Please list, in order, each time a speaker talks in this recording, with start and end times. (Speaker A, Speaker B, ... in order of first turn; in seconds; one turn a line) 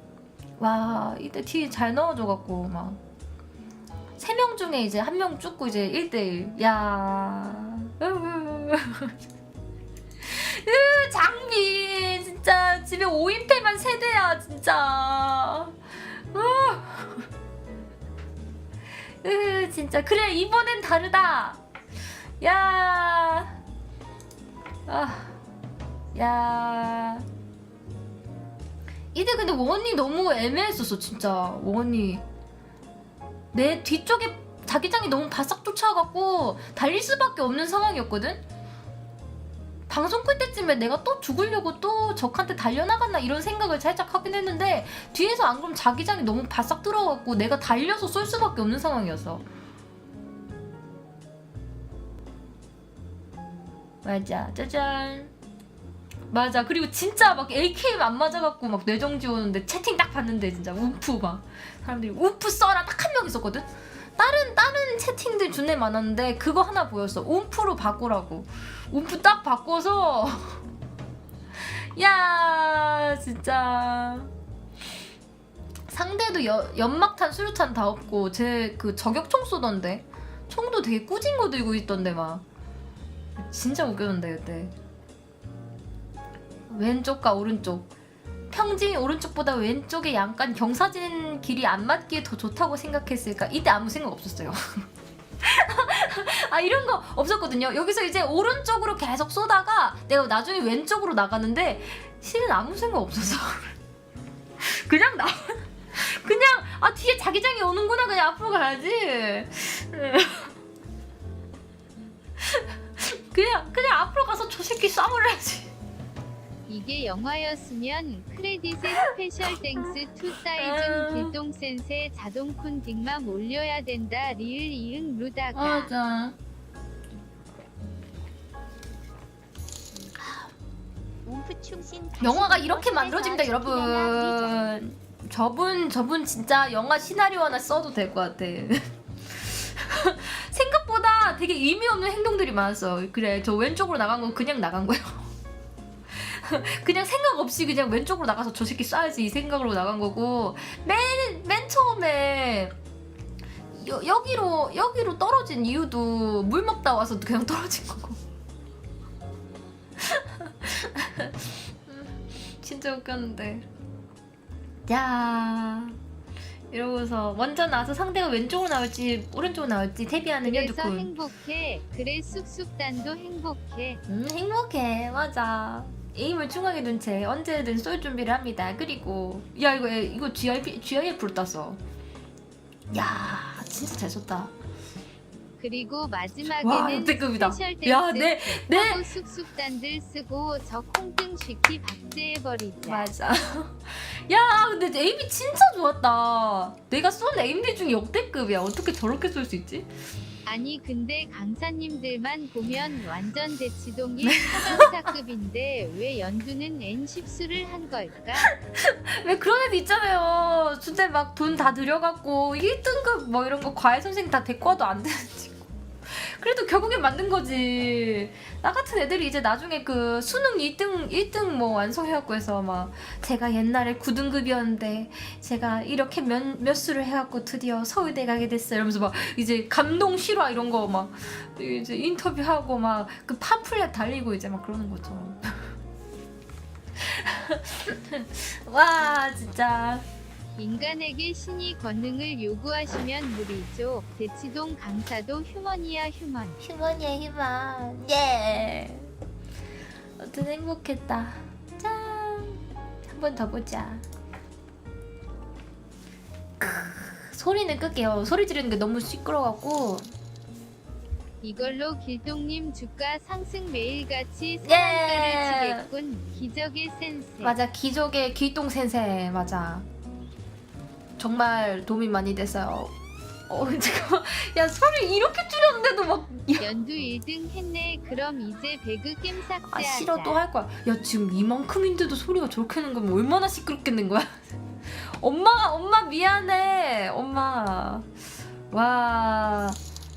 Speaker A: 0.6-3.0
Speaker A: 4.2-9.1
Speaker A: 10.2-15.7
Speaker A: 16.3-17.2
Speaker A: 19.2-21.6
Speaker A: 22.4-23.6
Speaker A: 24.9-25.4
Speaker A: 26.1-27.2
Speaker A: 29.1-32.2
Speaker A: 33.5-38.4
Speaker A: 39.9-49.5
Speaker A: 54.0-55.3
Speaker A: 56.3-70.6
Speaker A: 71.8-74.3
Speaker A: 75.9-82.4
Speaker A: 83.4-84.7
Speaker A: 86.7-87.9
Speaker A: 88.5-94.9
Speaker A: 95.4-103.7
Speaker A: 104.6-110.5
Speaker A: 112.5-115.7
Speaker B: 116.7-125.9
Speaker A: 119.8-121.3
Speaker A: 125.5-126.4
Speaker A: 130.2-130.5
Speaker C: 131.2-134.8
Speaker A: 132.2-145.3
Speaker A: 146.1-152.7
Speaker A: 153.7-158.2
Speaker A: 160.0-163.7
Speaker A: 164.9-166.0
Speaker A: 166.7-171.1
Speaker B: 170.4-174.0
Speaker A: 174.1-181.8
Speaker A: 182.9-184.5
Speaker B: 185.6-193.1
Speaker A: 186.4-189.0
Speaker A: 192.8-199.9
Speaker B: 200.5-208.5
Speaker A: 204.4-204.9
Speaker A: 208.6-235.7
Speaker A: 237.0-240.0
Speaker B: 240.6-246.6
Speaker A: 246.6-249.1
Speaker A: 250.2-254.1
Speaker A: 256.6-260.1
Speaker B: 261.4-267.6
Speaker A: 264.6-265.9
Speaker A: 267.4-269.9
Speaker A: 271.2-272.9
Speaker A: 273.5-276.7
Speaker B: 276.6-280.4
Speaker A: 279.6-288.1
Speaker A: 288.7-289.8